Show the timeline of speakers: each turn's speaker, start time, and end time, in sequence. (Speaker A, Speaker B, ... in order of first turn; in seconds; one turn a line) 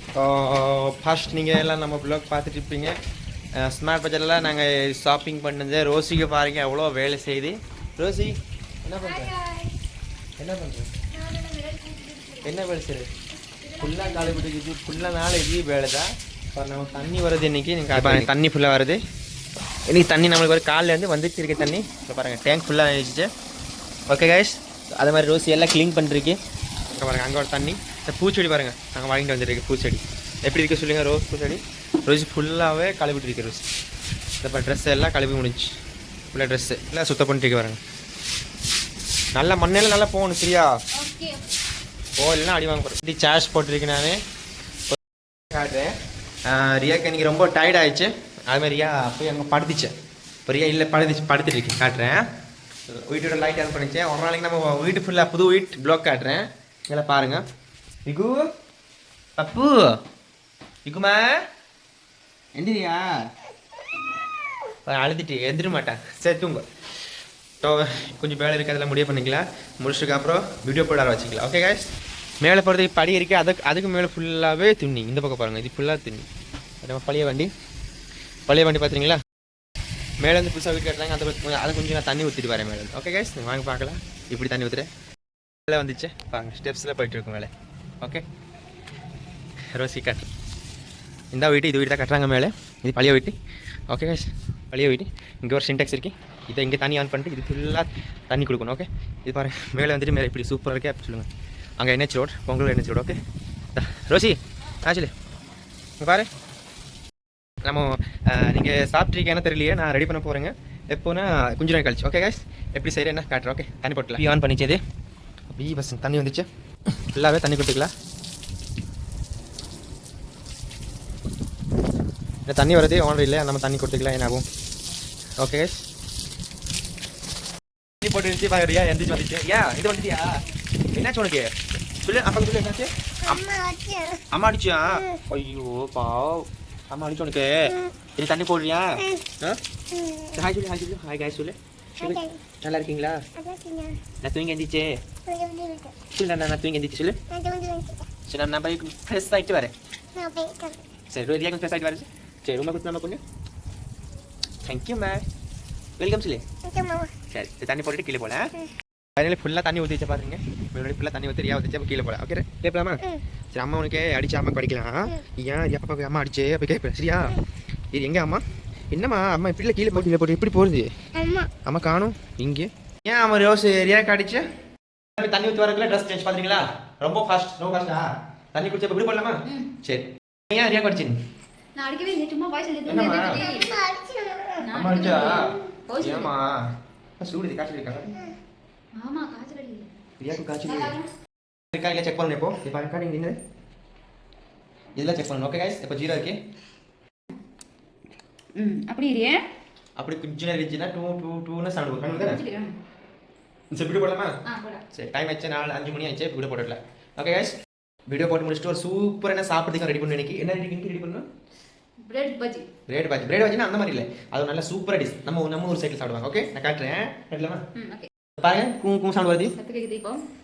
Speaker A: 0.1-3.0
Speaker A: 3.6-9.3
Speaker B: 9.1-9.7
Speaker A: 10.4-10.9
Speaker B: 11.2-12.4
Speaker A: 12.4-13.1
Speaker B: 13.7-14.3
Speaker A: 13.8-19.0
Speaker A: 19.9-23.3
Speaker A: 24.1-26.4
Speaker A: 26.9-33.6
Speaker A: 34.4-35.7
Speaker A: 36.3-37.8
Speaker A: 39.3-40.7
Speaker B: 40.9-41.5
Speaker A: 42.2-44.2
Speaker A: 45.5-45.9
Speaker A: 46.5-49.9
Speaker A: 50.5-52.2
Speaker A: 52.9-57.4
Speaker A: 58.0-58.5
Speaker A: 59.4-60.0
Speaker A: 60.8-61.4
Speaker A: 62.5-63.1
Speaker A: 64.8-66.6
Speaker A: 67.6-76.3
Speaker A: 76.8-77.5
Speaker A: 78.5-79.2
Speaker A: 80.2-84.9
Speaker A: 85.7-88.2
Speaker A: 89.7-90.3
Speaker A: 91.3-93.3
Speaker A: 93.9-101.3
Speaker A: 101.8-103.2
Speaker A: 103.7-105.1
Speaker A: 106.0-106.3
Speaker A: 107.6-114.8
Speaker A: 115.5-116.5
Speaker A: 117.0-117.9
Speaker A: 122.5-124.4
Speaker A: 125.4-125.8
Speaker A: 128.0-130.4
Speaker A: 130.9-139.6
Speaker A: 140.2-143.2
Speaker A: 144.2-145.0
Speaker A: 146.1-147.4
Speaker A: 148.3-149.7
Speaker A: 151.1-153.2
Speaker A: 154.6-155.2
Speaker A: 156.0-156.4
Speaker A: 157.3-158.5
Speaker A: 159.2-167.4
Speaker A: 167.9-174.4
Speaker A: 175.2-181.2
Speaker B: 179.5-179.7
Speaker B: 181.8-186.3
Speaker A: 182.9-183.4
Speaker A: 184.7-186.7
Speaker A: 187.2-188.2
Speaker B: 188.9-189.9
Speaker A: 190.2-190.9
Speaker B: 190.6-191.1
Speaker A: 191.7-193.4
Speaker A: 194.9-196.4
Speaker B: 198.5-199.5
Speaker A: 200.0-202.4
Speaker B: 202.2-202.8
Speaker A: 203.7-204.3
Speaker B: 204.4-204.8
Speaker A: 204.9-207.6
Speaker A: 208.1-211.2
Speaker B: 212.0-212.7
Speaker A: 212.9-217.6
Speaker B: 217.7-218.1
Speaker A: 218.4-219.5
Speaker B: 219.4-220.2